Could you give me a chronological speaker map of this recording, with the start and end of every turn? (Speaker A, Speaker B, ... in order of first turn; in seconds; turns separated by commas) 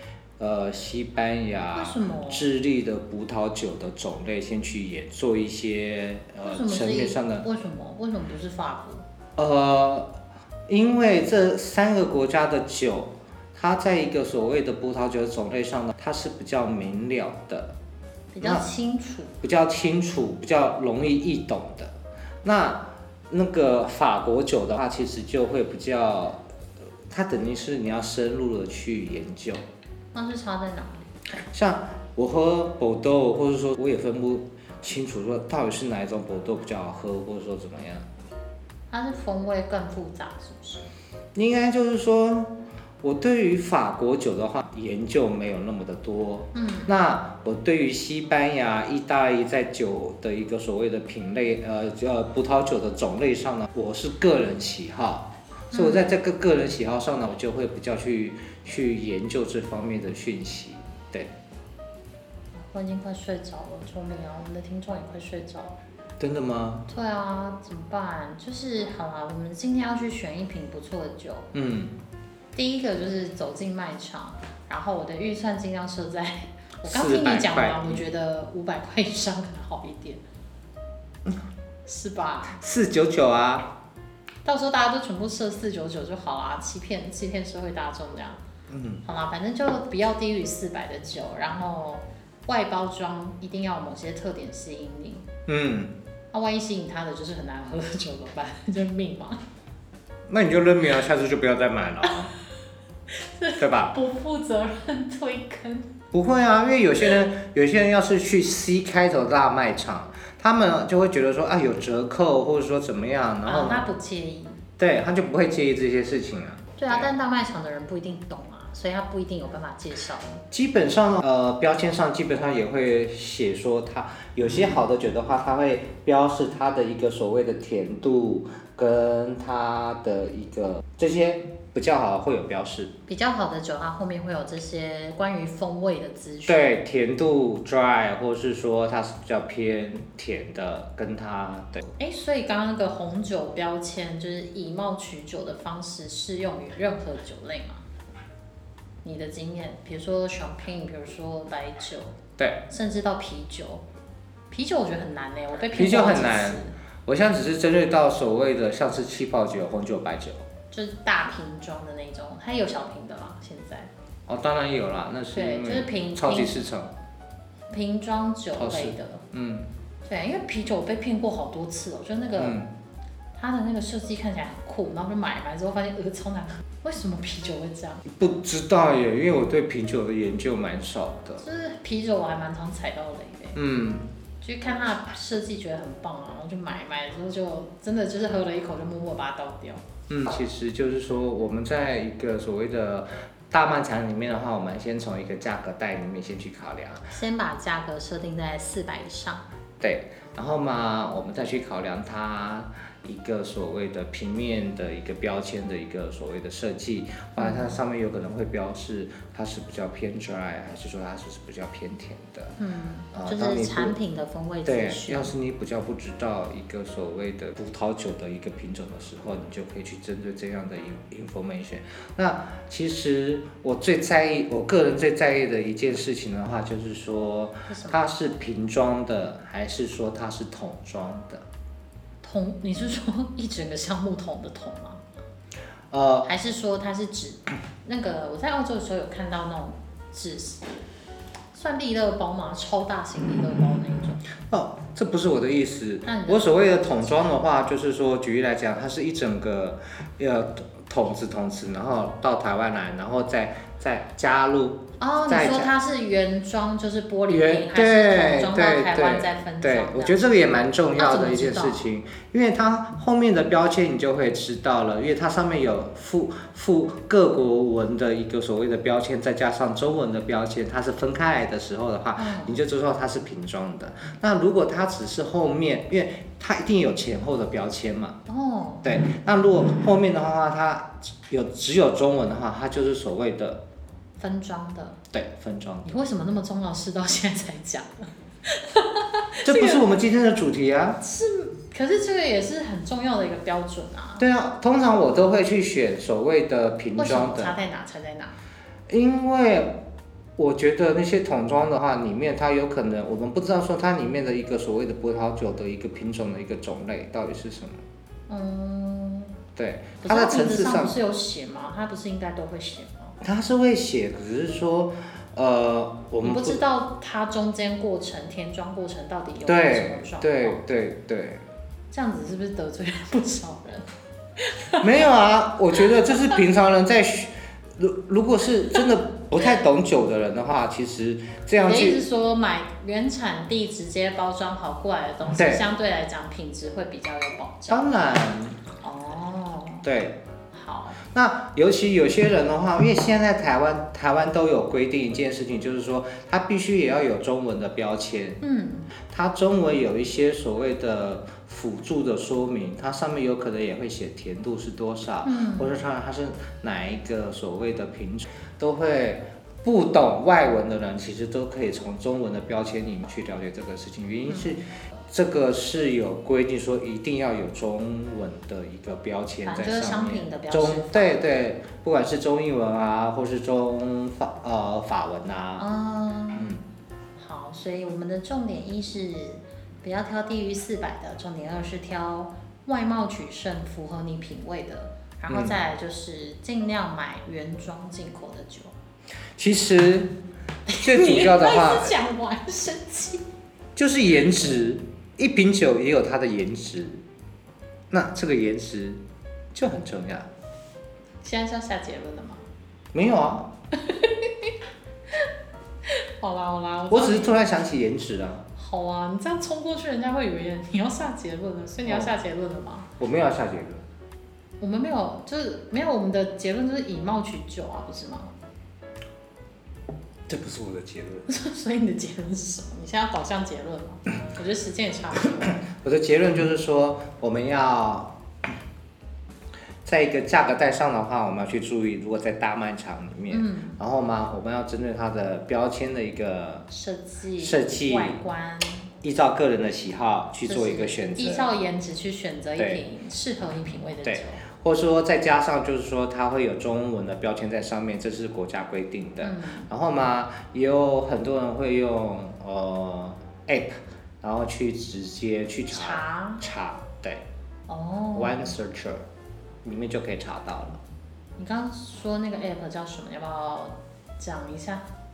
Speaker A: 0.4-7.5, Speaker B: 1.7-2.5, Speaker B: 6.4-9.0, Speaker A: 9.4-10.1, Speaker A: 10.7-17.7, Speaker B: 18.3-19.3, Speaker A: 18.4-18.6, Speaker A: 19.4-26.4, Speaker A: 27.1-29.6, Speaker B: 30.1-31.1, Speaker A: 31.4-38.1, Speaker B: 38.9-40.8, Speaker A: 41.3-61.3, Speaker B: 46.5-46.9, Speaker B: 55.7-56.1, Speaker B: 62.5-65.8, Speaker A: 66.2-66.9, Speaker B: 66.9-71.5, Speaker A: 71.5-71.9, Speaker B: 72.5-80.2, Speaker A: 76.8-78.0, Speaker B: 81.8-82.6, Speaker A: 82.5-83.7, Speaker B: 84.4-88.4, Speaker A: 88.7-89.0, Speaker B: 89.0-95.3, Speaker A: 95.5-95.9, Speaker B: 96.3-99.4, Speaker A: 100.3-102.3, Speaker B: 103.1-105.9, Speaker A: 103.6-103.9, Speaker A: 106.1-113.9, Speaker B: 113.5-114.6, Speaker A: 114.8-117.1, Speaker B: 116.8-120.4, Speaker A: 120.5-132.9, Speaker B: 133.1-136.7, Speaker A: 136.5-141.8, Speaker B: 142.0-147.8, Speaker B: 149.0-153.8, Speaker A: 152.4-152.6, Speaker B: 154.5-156.8, Speaker A: 155.7-160.4, Speaker B: 160.7-163.9, Speaker A: 164.3-166.9, Speaker B: 165.3-166.6, Speaker B: 167.7-169.2, Speaker A: 168.6-169.7, Speaker B: 170.1-172.6, Speaker A: 172.4-172.7, Speaker B: 173.3-178.0, Speaker A: 178.0-181.4, Speaker B: 181.4-183.6, Speaker A: 183.5-184.1, Speaker B: 184.4-189.8, Speaker A: 190.1-197.1, Speaker B: 197.1-199.4, Speaker A: 199.8-212.6, Speaker B: 207.4-207.8, Speaker B: 212.6-215.3, Speaker A: 213.1-213.9, Speaker A: 214.7-231.4, Speaker B: 227.7-228.0, Speaker B: 232.2-235.0, Speaker A: 235.9-236.3, Speaker B: 236.2-240.7, Speaker B: 241.5-244.2, Speaker A: 244.5-255.7, Speaker B: 246.0-247.3, Speaker B: 255.0-260.4, Speaker A: 257.3-278.2, Speaker B: 260.9-261.8, Speaker B: 272.2-272.6, Speaker B: 278.3-278.9, Speaker A: 278.8-283.6, Speaker B: 284.2-285.0, Speaker A: 285.1-285.9, Speaker B: 285.8-289.9, Speaker A: 289.4-291.0, Speaker B: 291.0-294.2, Speaker A: 294.2-297.5, Speaker B: 297.0-298.4, Speaker A: 298.9-299.8, Speaker A: 300.4-307.8, Speaker B: 308.3-309.4, Speaker A: 309.6-311.0, Speaker B: 310.0-313.2, Speaker A: 313.2-316.6, Speaker B: 316.2-320.6, Speaker A: 319.4-321.4, Speaker B: 321.9-323.9, Speaker B: 324.4-324.9, Speaker A: 324.8-332.0, Speaker B: 325.9-326.2, Speaker B: 331.6-337.9, Speaker A: 335.4-335.6, Speaker A: 337.7-338.6, Speaker B: 338.8-339.9, Speaker A: 339.8-340.2, Speaker B: 340.5-341.0, Speaker A: 341.0-348.4, Speaker B: 348.4-348.9, Speaker A: 349.0-375.7, Speaker B: 355.2-355.7, Speaker B: 364.3-364.5, Speaker B: 369.4-371.2, Speaker B: 375.6-376.6, Speaker A: 376.4-376.6, Speaker B: 377.2-388.7, Speaker A: 385.3-385.6, Speaker A: 389.4-390.1, Speaker B: 390.7-393.2, Speaker A: 390.8-391.9, Speaker A: 393.7-397.0, Speaker A: 397.9-399.0, Speaker A: 399.5-400.3, Speaker B: 401.2-402.4, Speaker A: 402.9-403.5, Speaker B: 403.8-404.5, Speaker B: 405.9-407.3, Speaker A: 406.9-408.4, Speaker B: 408.6-412.9, Speaker A: 411.9-412.1, Speaker A: 413.0-413.8, Speaker B: 414.6-418.3, Speaker A: 420.3-421.3, Speaker B: 421.3-425.6, Speaker A: 425.4-428.5, Speaker A: 429.8-436.7, Speaker B: 433.3-433.8, Speaker B: 436.7-438.9, Speaker A: 437.4-438.2, Speaker A: 439.0-441.5, Speaker B: 440.4-444.4, Speaker A: 444.0-457.2, Speaker B: 449.2-449.7, Speaker B: 455.7-456.4, Speaker B: 457.7-458.5, Speaker A: 458.1-459.0, Speaker A: 459.6-460.8, Speaker B: 461.4-464.8